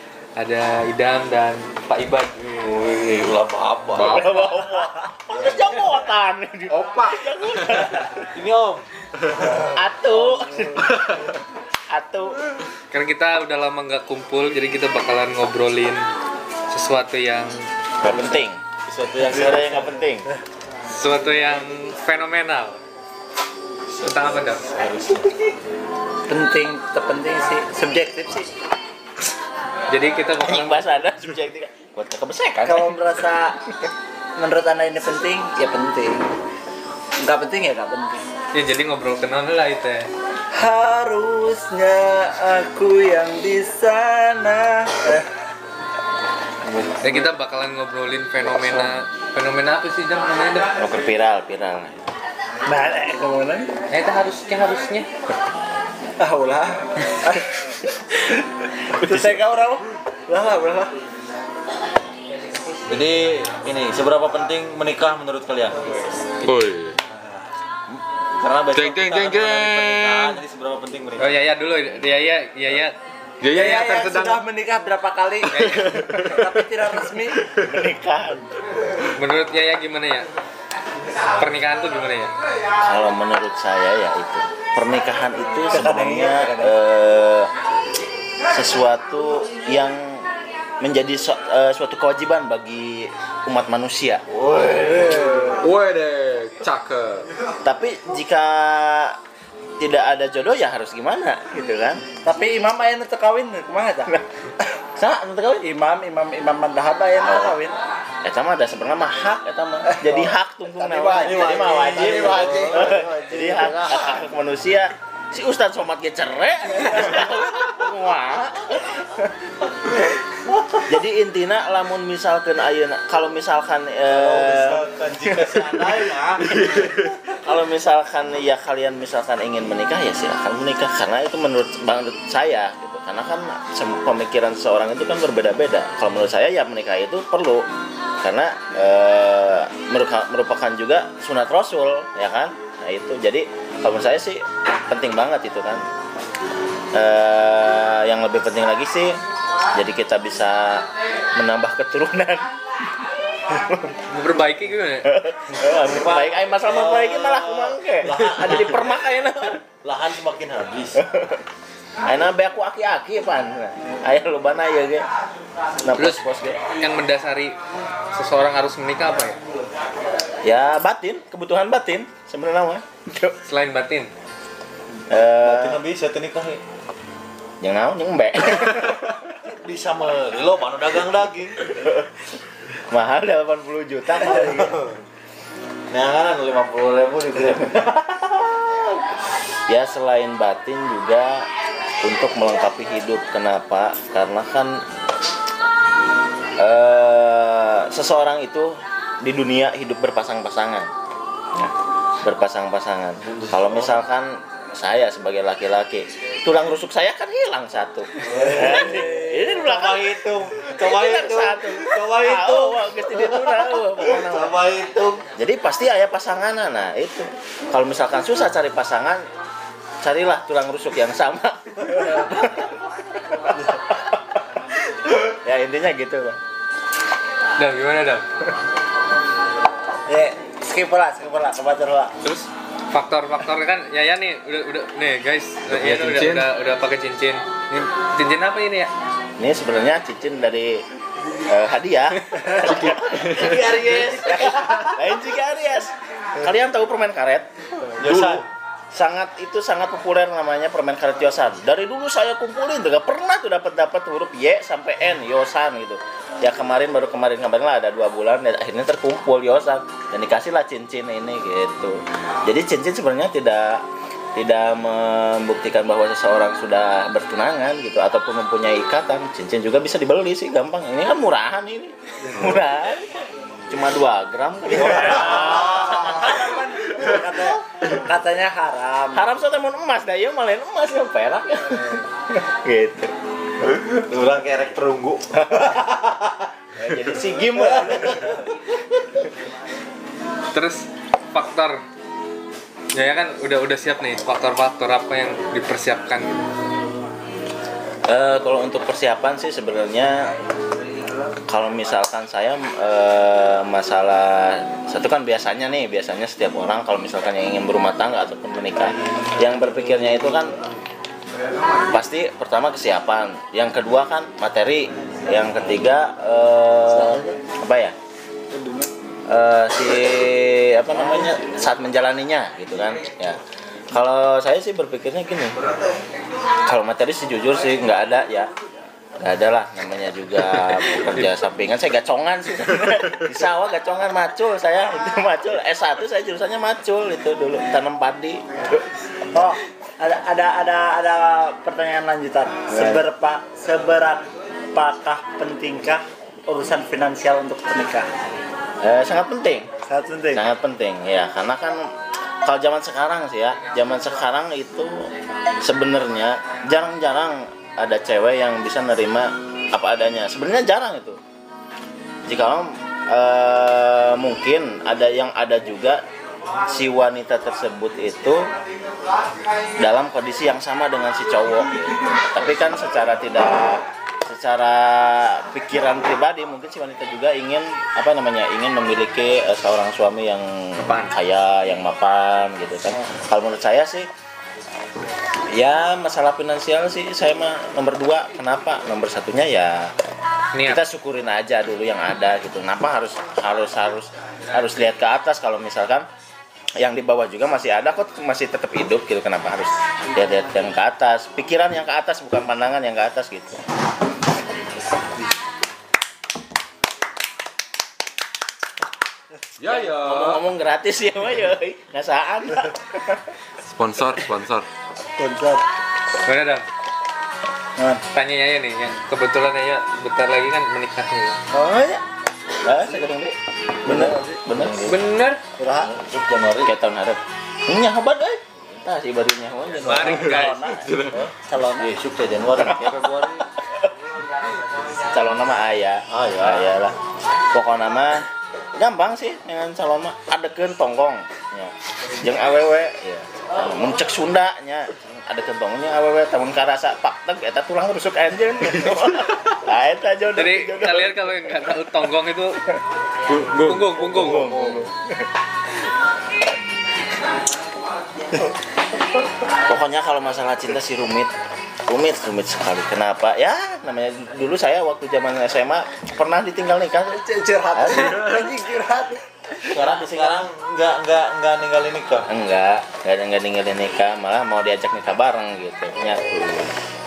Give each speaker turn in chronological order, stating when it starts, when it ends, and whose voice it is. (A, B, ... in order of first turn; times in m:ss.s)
0:00.4-0:02.8 A
0:02.6-0:04.2 B
0:04.0-0:08.2 C
0:06.7-0:07.7 D
0:08.3-0:08.8 B
0:09.7-0:10.9 C
0:11.9-0:12.3 C
0:12.9-0:16.0 A
0:16.7-0:17.6 A
0:18.0-0:18.6 C
0:18.9-0:19.9 B
0:19.3-0:20.3 C
0:20.9-0:22.8 A
0:23.9-0:25.5 B
0:24.0-0:24.6 A
0:26.3-0:28.5 E
0:29.9-0:30.9 A
0:30.4-0:33.0 C
0:32.6-0:33.6 E
0:34.4-0:36.2 E
0:37.2-0:38.2 E
0:38.5-0:40.1 A
0:40.5-0:45.3 E
0:46.7-0:47.2 E
0:47.0-0:50.7 A
0:50.8-0:52.0 C
0:52.7-0:53.7 E
0:53.9-0:55.1 A
0:56.2-0:57.5 E
0:58.9-1:00.9 E
1:02.9-1:05.8 B
1:06.4-1:07.0 D
1:08.4-1:11.4 B
1:08.7-1:10.4 D
1:11.2-1:13.0 A
1:13.4-1:14.4 D
1:13.5-1:17.5 E
1:15.5-1:15.9 A
1:15.9-1:16.5 D
1:17.6-1:18.4 C
1:19.2-1:20.3 A
1:21.4-1:22.3 A
1:22.8-1:27.5 C
1:25.7-1:26.7 E
1:28.5-1:30.3 C
1:30.8-1:34.2 C
1:34.3-1:37.3 D
1:35.0-1:35.5 E
1:37.6-1:39.2 C
1:39.8-1:42.0 C
1:42.2-1:44.1 E
1:45.0-1:45.6 C
1:45.6-1:47.8 E
1:47.2-1:47.5 C
1:48.2-1:59.2 C
1:49.9-1:54.0 E
1:51.2-1:53.7 B
2:00.9-2:06.1 C
2:04.1-2:06.8 B
2:07.3-2:17.6 C
2:18.2-2:25.8 C
2:26.9-2:29.2 C
2:29.7-2:32.5 C
2:33.4-2:33.9 C
2:34.1-2:35.1 A
2:35.0-2:39.6 C
2:35.8-2:39.0 B
2:39.8-2:41.0 B
2:41.0-2:41.4 C
2:42.0-2:45.1 C
2:45.8-2:46.6 C
2:46.0-2:46.2 A
2:46.8-2:47.6 A
2:48.1-2:49.4 A
2:50.4-2:53.4 C
2:53.4-2:54.1 A
2:55.1-2:55.8 C
2:55.2-2:56.6 B
2:57.6-2:59.1 C
2:59.4-3:01.7 B
3:01.7-3:02.1 C
3:02.9-3:04.8 C
3:04.6-3:04.9 B
3:05.9-3:08.4 B
3:09.7-3:11.4 C
3:12.0-3:14.8 C
3:16.6-3:20.9 C
3:21.5-3:34.6 C
3:23.2-3:24.0 B
3:28.2-3:35.2 B
3:35.4-3:39.2 C
3:40.0-3:42.7 C
3:43.3-3:44.2 C
3:45.2-3:46.4 C
3:47.6-3:48.2 A
3:50.1-3:52.1 E
3:52.2-3:58.9 A
3:55.7-3:56.5 D
3:59.4-4:00.8 C
4:01.5-4:07.5 C
4:03.2-4:04.9 B
4:08.0-4:08.4 B
4:08.9-4:23.8 C
4:24.4-4:33.1 C
4:33.7-4:36.4 C
4:35.3-4:39.3 E
4:39.1-4:43.1 C
4:43.7-4:46.5 B
4:46.8-4:48.3 C
4:47.8-4:48.4 B
4:50.5-4:51.8 A
4:52.9-4:56.5 A
4:58.1-5:00.3 C
5:01.5-5:10.5 C
5:11.9-5:17.9 C
5:16.9-5:17.3 E
5:18.5-5:18.9 E
5:19.3-5:23.4 C
5:23.9-5:25.6 C
5:26.6-5:28.5 C
5:29.2-5:38.8 C
5:39.3-5:48.1 E
5:42.7-5:43.1 C
5:48.8-5:49.7 C
5:49.9-5:50.4 E
5:50.3-5:51.9 C
5:52.4-5:55.1 C
5:55.6-6:01.2 C
6:02.2-6:06.0 C
6:06.7-6:08.4 C
6:09.8-6:24.1 C
6:25.5-6:29.9 C
6:30.5-6:30.8 A
6:30.6-6:36.1 C
6:36.8-6:43.6 C
6:49.6-6:50.4 D
6:49.9-6:53.2 C
6:53.7-6:54.6 D
6:55.2-6:55.6 E
6:56.2-6:56.6 A
6:58.1-7:01.4 A
7:01.5-7:02.0 E
7:02.6-7:05.0 C
7:03.8-7:04.4 E
7:03.9-7:04.9 B
7:04.8-7:05.4 A
7:05.6-7:05.9 E
7:05.7-7:06.7 B
7:06.6-7:10.9 C
7:09.8-7:11.1 A
7:11.1-7:13.4 B
7:11.4-7:11.9 E
7:12.6-7:13.2 C
7:15.1-7:17.0 C
7:16.1-7:16.7 B
7:17.5-7:31.2 C
7:30.4-7:32.6 A
7:33.4-7:34.8 A
7:33.4-7:33.9 D
7:34.1-7:34.8 C
7:39.7-7:41.3 C
7:41.9-7:47.2 C
7:47.1-7:49.2 E
7:47.7-7:48.5 C
7:49.6-7:50.5 C
7:49.6-7:52.3 B
7:52.3-7:56.6 C